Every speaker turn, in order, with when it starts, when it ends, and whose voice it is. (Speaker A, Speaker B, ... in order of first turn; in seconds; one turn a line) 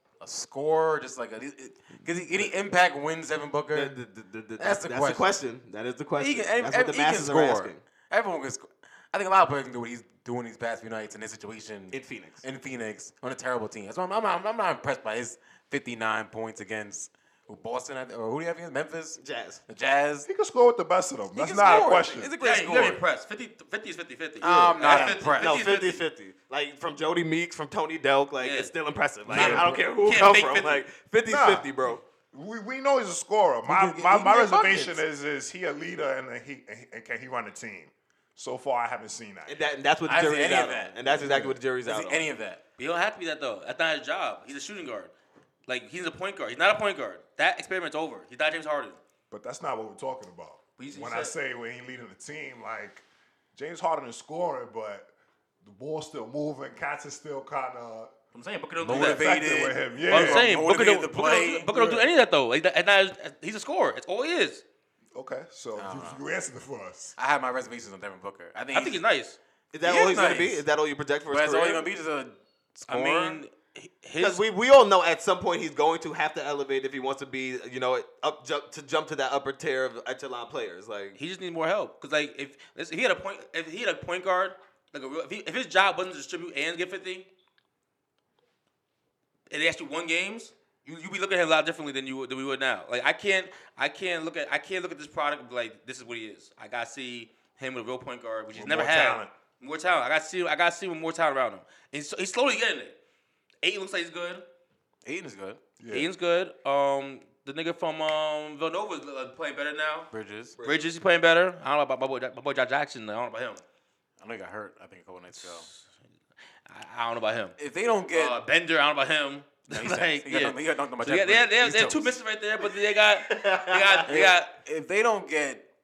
Speaker A: 0.2-4.0
Speaker B: 3.7-7.8
Speaker A: 4.6-5.3
Speaker A: 6.2-20.3
Speaker B: 11.9-12.4
Speaker B: 19.2-19.6
Speaker C: 20.3-22.3
Speaker A: 21.4-23.0
Speaker D: 21.7-26.0
Speaker A: 24.4-25.7
Speaker B: 24.7-32.0
Speaker D: 28.4-28.7
Speaker C: 29.3-29.6
Speaker A: 29.3-29.8
Speaker D: 29.3-30.9
Speaker C: 31.3-31.7
Speaker C: 32.3-39.7
Speaker A: 33.7-35.0
Speaker B: 39.5-42.3
Speaker A: 40.1-42.6
Speaker D: 42.8-45.1
Speaker D: 45.7-49.0
Speaker C: 49.3-55.1
Speaker D: 50.8-51.3
Speaker C: 55.6-58.1
Speaker D: 58.3-59.3
Speaker A: 58.8-61.7
Speaker C: 58.9-60.5
Speaker D: 60.1-64.6
Speaker C: 61.7-62.1
Speaker C: 65.2-67.2
Speaker A: 65.8-66.2
Speaker A: 67.2-69.0
Speaker D: 68.7-69.4
Speaker B: 69.7-71.8
Speaker A: 69.8-70.7
Speaker A: 71.3-73.4
Speaker D: 72.9-74.4
Speaker B: 74.2-81.2
Speaker D: 81.2-87.3
Speaker D: 89.5-103.0
Speaker C: 98.5-99.3
Speaker D: 103.6-104.4
Speaker A: 105.0-105.6
Speaker C: 105.8-106.1
Speaker D: 105.9-110.1
Speaker A: 110.1-110.6
Speaker B: 110.6-110.9
Speaker D: 110.6-113.6
Speaker A: 114.2-115.7
Speaker D: 115.3-115.8
Speaker D: 116.7-117.6
Speaker A: 117.6-118.4
Speaker D: 118.1-124.5
Speaker A: 119.7-122.2
Speaker B: 123.2-124.1
Speaker A: 124.0-125.7